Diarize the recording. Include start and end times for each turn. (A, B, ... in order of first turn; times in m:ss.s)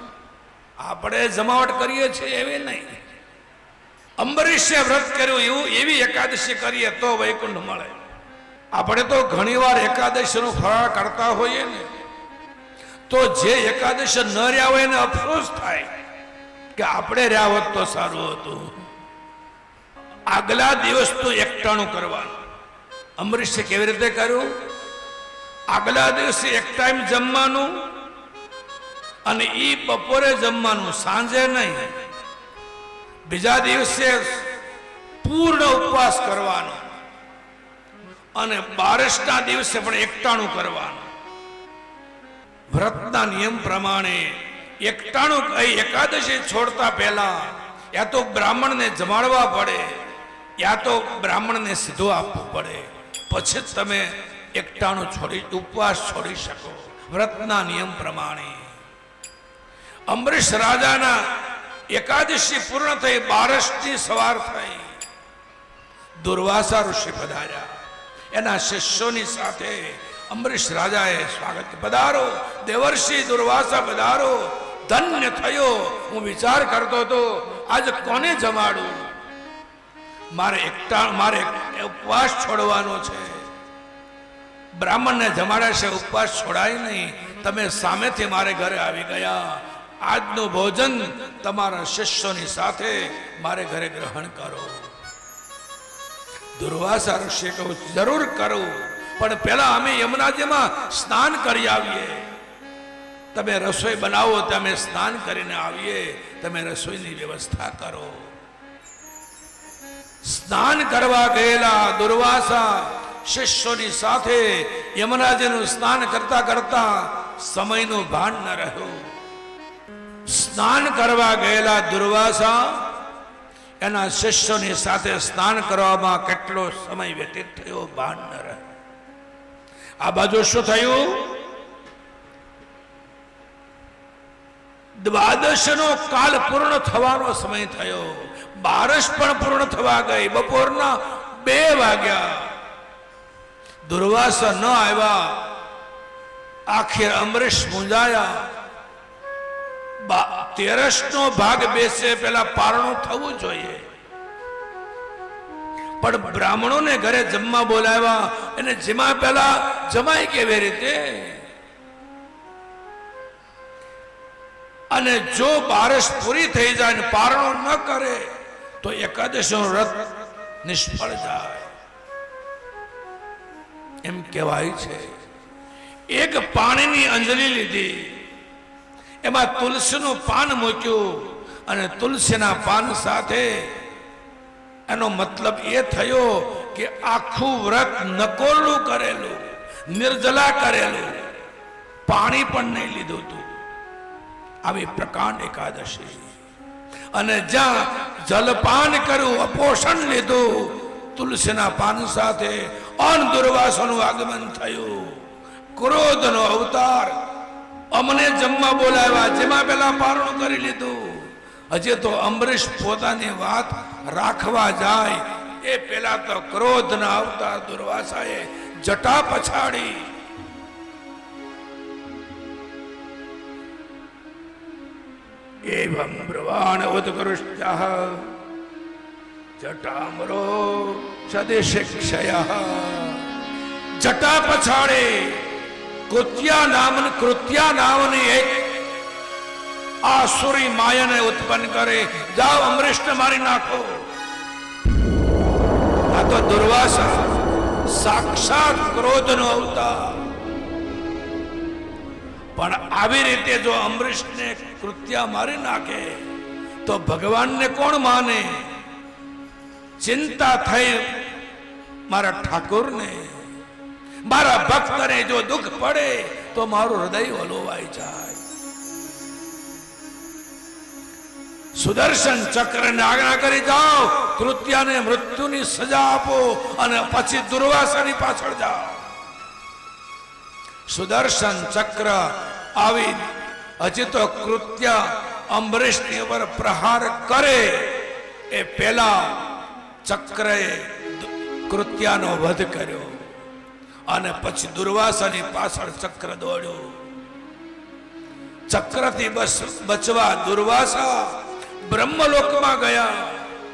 0:00.8-0:03.0 A
0:04.2-0:08.0 A
0:08.8-0:11.9 A
0:13.1-0:15.9 A
0:16.8-0:18.7 A
0:20.3-0:22.4 A
0:23.2-0:24.5 A
0:25.7-0:27.7 A
0:29.3-0:31.9 A
0:33.3-0:34.3 A
0:35.2-0:36.9 A
0:38.4-0:41.0 A
0:42.7-0:50.0 A
0:50.6-0:58.6 A
1:00.1-1:01.2 A
1:01.9-1:04.9 A
1:06.2-1:07.7 A
1:08.3-1:19.1 A
1:20.4-1:23.4 A
1:24.8-1:34.9 A
1:36.6-1:42.2 A
1:43.3-1:48.2 A
1:50.2-1:59.0 A
2:00.3-2:02.8 A
2:03.8-2:08.6 A
2:10.0-2:11.3 A
2:15.0-2:22.5 A
2:23.8-2:25.4 A
2:26.7-2:28.4 A
2:30.0-2:33.8 A
2:36.0-2:41.4 A
2:44.9-2:50.1 A
2:50.6-2:51.7 A
2:54.0-2:55.1 A
2:56.1-2:58.2 A
2:59.2-3:03.7 A
3:04.9-3:09.4 A
3:09.9-3:11.2 A
3:12.1-3:13.6 A
3:14.6-3:16.3 A
3:17.1-3:25.2 A
3:25.8-3:27.2 A
3:27.9-3:40.1 A
3:45.7-3:48.3 A
3:49.6-3:53.2 A
3:54.0-3:55.5 A
3:56.1-3:58.8 A
4:00.0-4:04.1 A
4:06.1-4:07.3 A
4:07.9-4:10.2 A
4:12.6-4:16.2 A
4:16.8-4:18.6 A
4:20.0-4:21.1 A
4:22.1-4:23.4 A
4:24.2-4:28.4 A
4:31.8-4:39.0 A
4:40.9-4:48.0 A
4:48.5-4:49.5 A
4:50.0-4:53.3 A
4:54.1-4:56.9 A
4:58.7-5:03.4 A